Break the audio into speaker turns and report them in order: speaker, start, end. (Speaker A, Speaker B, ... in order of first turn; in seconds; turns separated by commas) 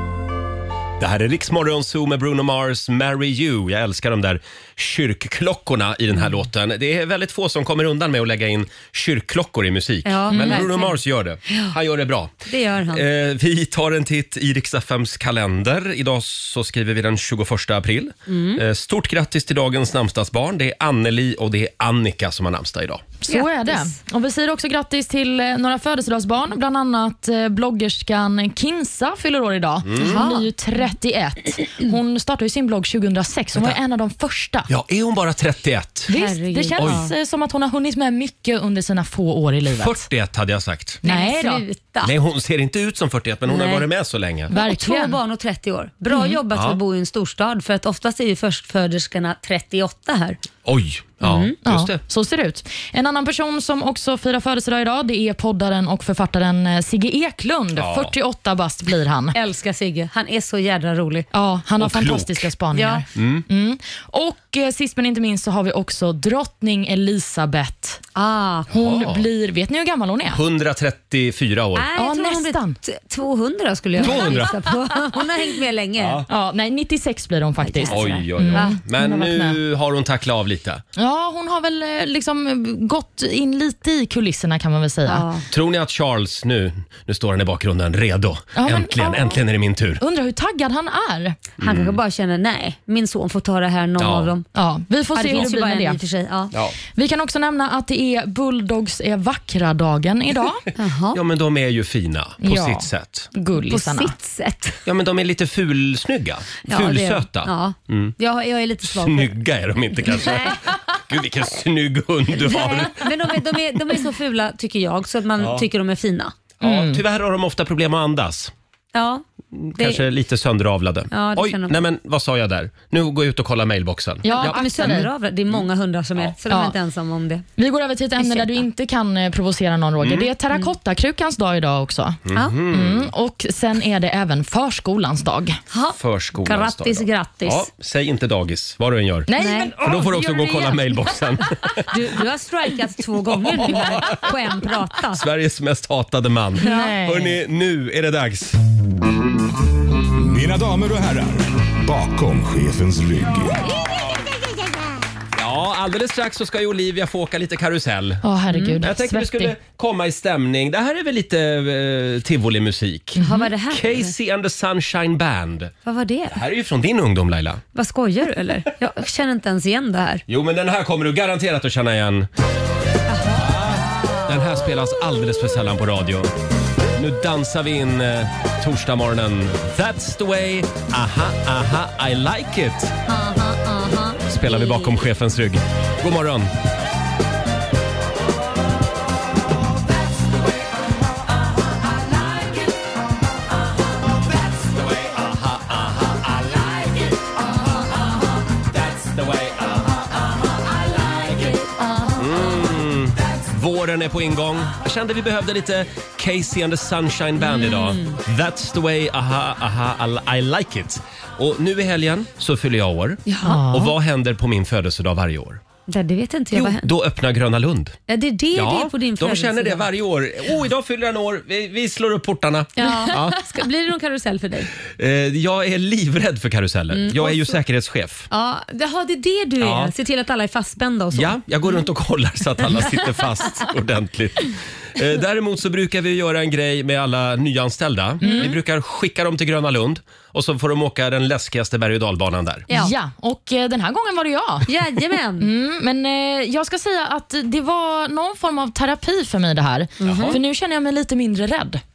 Speaker A: 1.0-23.1, Speaker B: 10.0-11.0, Speaker C: 10.3-10.6, Speaker B: 11.5-11.7, Speaker B: 12.4-13.0, Speaker B: 18.3-18.6, Speaker C: 23.2-34.7, Speaker B: 23.3-23.9, Speaker A: 29.8-30.2, Speaker B: 30.0-30.5, Speaker A: 34.7-36.1, Speaker C: 36.1-40.0, Speaker B: 36.1-37.1, Speaker A: 36.8-37.1, Speaker A: 39.7-41.0, Speaker C: 41.0-41.6, Speaker B: 41.0-42.1, Speaker A: 42.0-44.5, Speaker B: 43.5-43.9, Speaker B: 44.5-50.4, Speaker C: 44.5-45.1, Speaker C: 46.1-46.4, Speaker A: 46.5-46.8, Speaker A: 50.6-52.0, Speaker B: 51.2-51.5, Speaker C: 51.6-59.4, Speaker A: 57.8-58.1, Speaker B: 59.3-61.3, Speaker C: 61.3-68.0, Speaker A: 61.8-62.5, Speaker B: 62.7-63.0, Speaker A: 63.1-63.4, Speaker B: 68.1-68.7, Speaker A: 68.7-69.2, Speaker C: 68.7-70.4, Speaker A: 70.3-71.9, Speaker B: 71.8-76.2, Speaker C: 71.9-72.8, Speaker A: 74.0-74.6, Speaker C: 74.0-74.4, Speaker A: 76.0-76.3, Speaker C: 76.3-79.6, Speaker B: 77.6-78.8, Speaker A: 77.9-80.8, Speaker C: 81.0-85.2, Speaker B: 85.1-85.5, Speaker A: 85.5-90.0, Speaker C: 88.5-89.4, Speaker C: 90.0-91.4, Speaker A: 91.6-92.0, Speaker B: 91.6-94.5, Speaker A: 94.0-94.3, Speaker C: 94.5-96.0, Speaker B: 95.1-96.5, Speaker A: 96.5-96.8, Speaker C: 96.9-100.6, Speaker B: 100.8-101.2, Speaker A: 101.1-103.3, Speaker C: 102.4-104.1, Speaker B: 103.6-104.8, Speaker A: 104.8-108.1, Speaker B: 106.7-109.3, Speaker A: 108.8-113.3, Speaker B: 110.1-110.6, Speaker B: 112.4-116.3, Speaker A: 115.4-115.7, Speaker A: 116.6-118.5, Speaker C: 116.6-117.0, Speaker B: 118.9-119.2, Speaker A: 119.5-125.6, Speaker B: 119.8-120.0, Speaker B: 121.1-121.8, Speaker C: 124.2-125.1, Speaker B: 124.3-127.5, Speaker C: 126.5-126.8, Speaker C: 127.6-132.2, Speaker B: 128.2-128.6, Speaker A: 130.0-130.3, Speaker A: 132.2-133.1, Speaker C: 132.7-135.6, Speaker B: 135.7-137.7, Speaker A: 135.9-141.8, Speaker C: 139.3-140.7, Speaker B: 139.4-139.8, Speaker B: 141.9-145.2, Speaker A: 143.5-144.2, Speaker A: 145.1-148.6, Speaker C: 146.6-147.4, Speaker B: 146.6-146.9, Speaker D: 150.2-153.8, Speaker A: 155.3-158.2, Speaker C: 158.2-159.5, Speaker B: 158.5-158.8, Speaker A: 158.8-165.7, Speaker C: 163.2-163.5, Speaker B: 163.2-164.1, Speaker B: 165.8-166.4, Speaker A: 166.3-167.6, Speaker B: 167.7-170.2, Speaker A: 170.3-172.3, Speaker B: 173.1-174.4, Speaker A: 173.4-176.3, Speaker A: 176.9-182.9, Speaker B: 183.1-185.0, Speaker A: 184.3-186.5, Speaker A: 194.4-197.3, Speaker A: 198.7-200.1, Speaker B: 200.9-202.6, Speaker A: 202.2-215.6, Speaker B: 207.4-208.2, Speaker B: 213.3-213.6, Speaker C: 213.4-213.9, Speaker B: 215.9-216.9, Speaker A: 216.5-218.0, Speaker B: 218.1-219.9, Speaker A: 218.5-223.4, Speaker B: 222.8-224.7, Speaker A: 224.9-228.3, Speaker B: 226.9-227.6, Speaker B: 228.3-231.3, Speaker A: 229.6-229.9, Speaker A: 231.1-242.7, Speaker C: 238.2-238.5, Speaker B: 238.2-238.5, Speaker B: 242.7-242.9, Speaker C: 242.7-244.7, Speaker B: 244.7-245.5, Speaker C: 245.4-251.8, Speaker B: 250.0-250.4, Speaker A: 250.0-250.4